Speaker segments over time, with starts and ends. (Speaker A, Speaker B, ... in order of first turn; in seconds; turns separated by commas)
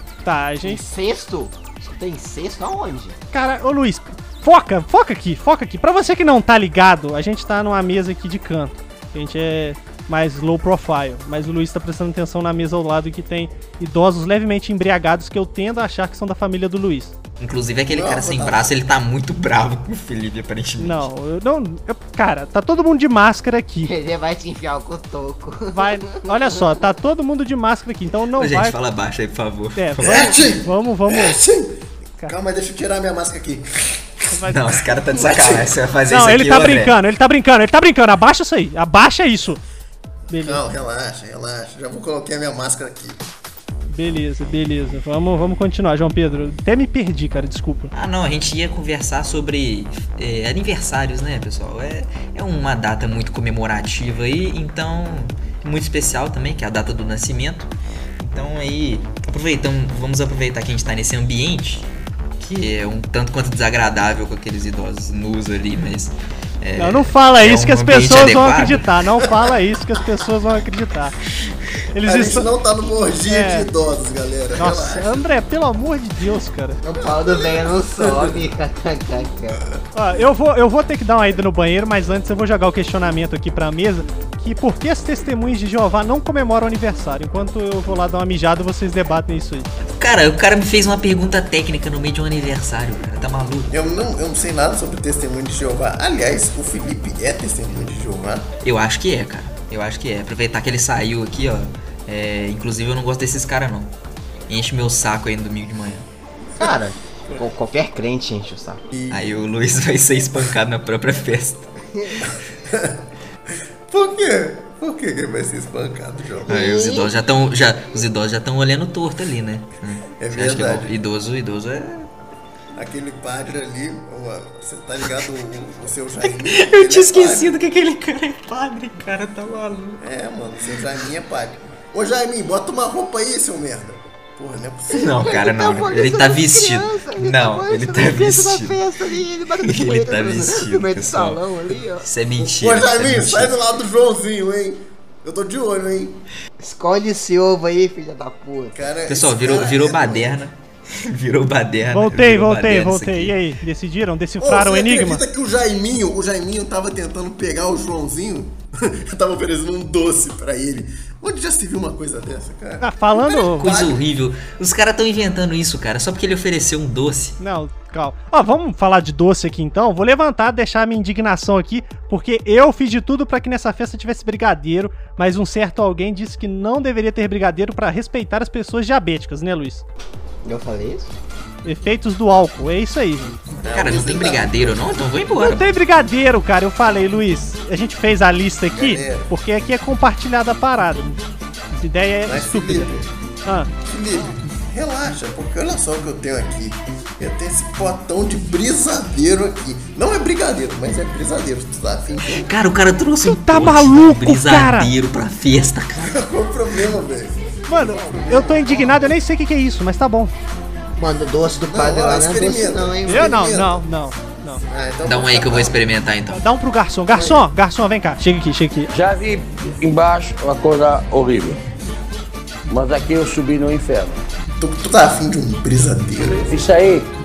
Speaker A: 0.2-0.8, Speaker B: 0.6-3.2, Speaker A: 3.3-17.1, Speaker C: 17.4-21.1, Speaker D: 17.9-18.7, Speaker A: 20.8-23.9, Speaker B: 23.8-26.8, Speaker A: 25.7-28.8, Speaker C: 28.4-30.3, Speaker A: 29.8-31.4, Speaker D: 30.0-34.0, Speaker C: 34.5-37.0, Speaker D: 35.1-35.7, Speaker A: 36.1-39.6, Speaker A: 40.3-40.6, Speaker D: 40.3-43.2, Speaker A: 43.9-47.9, Speaker C: 47.9-68.9, Speaker A: 66.8-71.2, Speaker A: 71.9-72.5, Speaker D: 72.0-75.3, Speaker A: 73.3-73.7, Speaker A: 74.6-76.8, Speaker B: 76.8-79.6, Speaker D: 77.0-78.4, Speaker A: 80.0-89.7, Speaker C: 89.9-93.7, Speaker D: 93.7-98.5, Speaker C: 98.6-103.9, Speaker C: 104.5-106.1, Speaker B: 106.6-108.8, Speaker D: 108.9-109.2, Speaker C: 109.1-111.7, Speaker D: 112.3-113.0, Speaker D: 113.9-116.6, Speaker C: 116.5-122.1, Speaker B: 116.5-117.1, Speaker D: 120.2-120.9, Speaker D: 122.8-127.5, Speaker C: 126.2-130.0, Speaker D: 130.0-135.2, Speaker C: 134.9-138.8, Speaker B: 135.0-142.1, Speaker C: 139.6-143.6, Speaker D: 142.4-146.2, Speaker B: 146.6-148.8, Speaker D: 148.7-150.4, Speaker C: 149.1-153.4, Speaker A: 151.9-155.2, Speaker D: 154.4-164.0, Speaker A: 162.8-163.7, Speaker C: 163.6-167.4, Speaker A: 167.4-179.8, Speaker B: 180.4-181.1, Speaker A: 181.6-183.3, Speaker D: 183.5-185.1, Speaker C: 183.7-185.7, Speaker A: 185.4-191.2, Speaker D: 188.7-189.3, Speaker A: 191.7-192.9, Speaker D: 192.3-193.1, Speaker A: 193.4-193.7, Speaker D: 193.9-202.5, Speaker C: 202.3-206.2, Speaker A: 203.2-204.9, Speaker D: 206.0-209.2, Speaker A: 207.7-210.3, Speaker B: 211.0-213.4, Speaker D: 211.7-213.8, Speaker A: 213.1-214.6, Speaker D: 214.6-215.8, Speaker C: 215.0-216.4, Speaker A: 216.3-218.9, Speaker D: 217.2-217.4, Speaker E: 218.9-221.6, Speaker E: 222.7-224.2, Speaker D: 224.6-226.5, Speaker E: 226.5-227.1